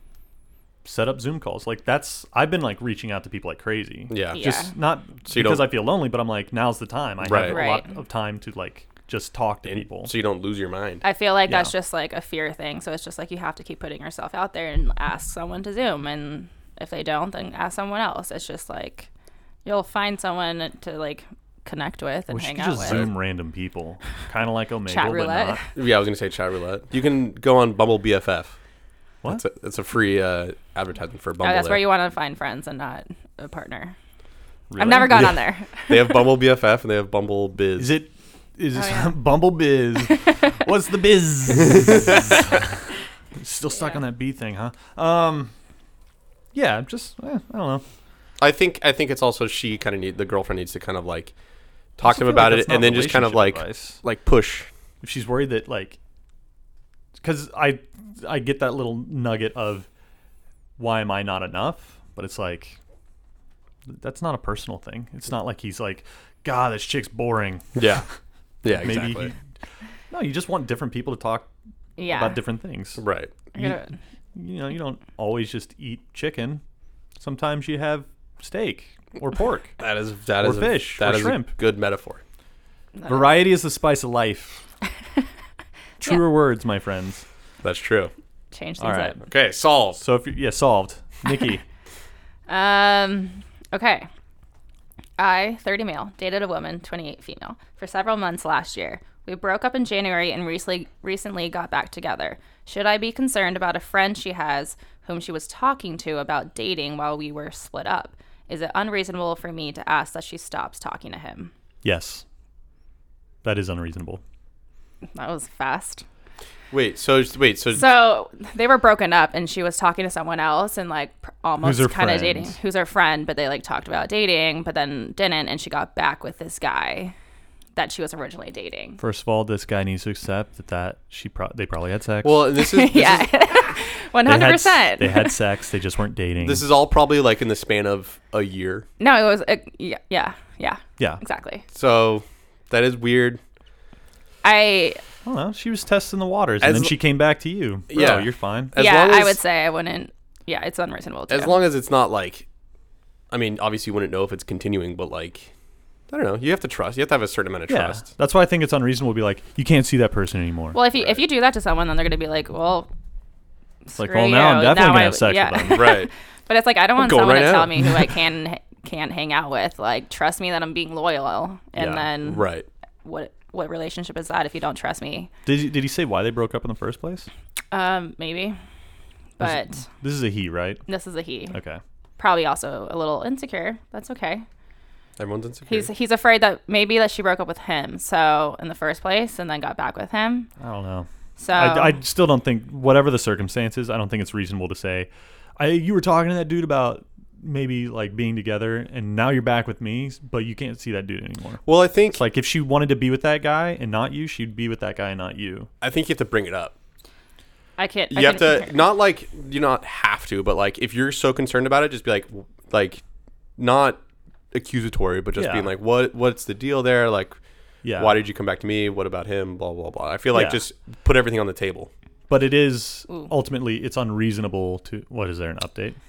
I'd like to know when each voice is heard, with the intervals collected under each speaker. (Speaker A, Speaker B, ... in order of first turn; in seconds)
Speaker A: 0.8-10.1, 11.5-11.7, 22.3-25.6, 34.7-35.3, 37.8-42.3, 43.4-45.5, 46.5-47.8, 52.0-54.0, 55.0-56.0, 57.2-59.9, 60.8-62.8, 63.9-68.0, 68.7-69.4, 70.1-71.5, 72.1-73.0, 74.3-76.6, 77.2-79.8, 80.4-81.5, 83.1-84.6, 86.0-87.2, 88.8-89.2, 90.0-91.6, 111.8-112.2, 113.4-114.2, 121.6-122.5, 129.0-132.5, 134.2-136.6, 145.2-148.7, 157.7-160.8, 163.9-165.9, 175.4-177.3, 179.4-180.8, 181.5-181.8, 190.6-205.7, 215.3-215.7, 217.8-218.2, 220.3-220.6, 222.3-226.0
Speaker B: 4.1-4.4, 5.3-5.7, 7.2-7.6, 9.6-11.0, 25.8-28.6, 29.3-31.8, 35.9-37.9, 48.4-51.3, 52.0-54.7, 67.7-68.0, 68.6-69.3, 73.0-73.3, 79.8-82.2, 87.6-88.1, 89.2-90.0, 116.7-117.8, 132.2-133.5, 136.4-138.9, 141.7-143.4, 146.6-147.0, 147.9-149.4, 151.3-152.4, 153.3-155.5, 156.1-158.1, 160.9-161.2, 165.7-166.1, 167.0-168.0, 171.8-172.7, 185.2-185.9, 201.6-202.2, 205.8-206.7, 208.1-213.0, 213.6-214.0, 214.5-217.4, 217.9-221.9
Speaker C: 4.3-4.7, 7.3-7.9, 11.0-19.1, 19.6-23.1, 24.9-25.6, 31.4-33.9, 34.8-36.2, 38.7-39.2, 72.0-72.4, 73.5-73.9, 83.0-83.4, 88.5-89.2, 92.5-94.1, 95.2-111.5, 115.1-116.0, 117.7-127.1, 127.7-129.0, 132.6-135.4, 139.0-141.6, 144.4-145.0, 148.7-151.6, 160.7-162.9, 163.9-172.4, 173.0-175.3, 177.7-178.6, 179.4-179.8, 180.9-181.5, 182.2-184.4, 185.7-190.5, 191.4-192.0, 207.8-208.8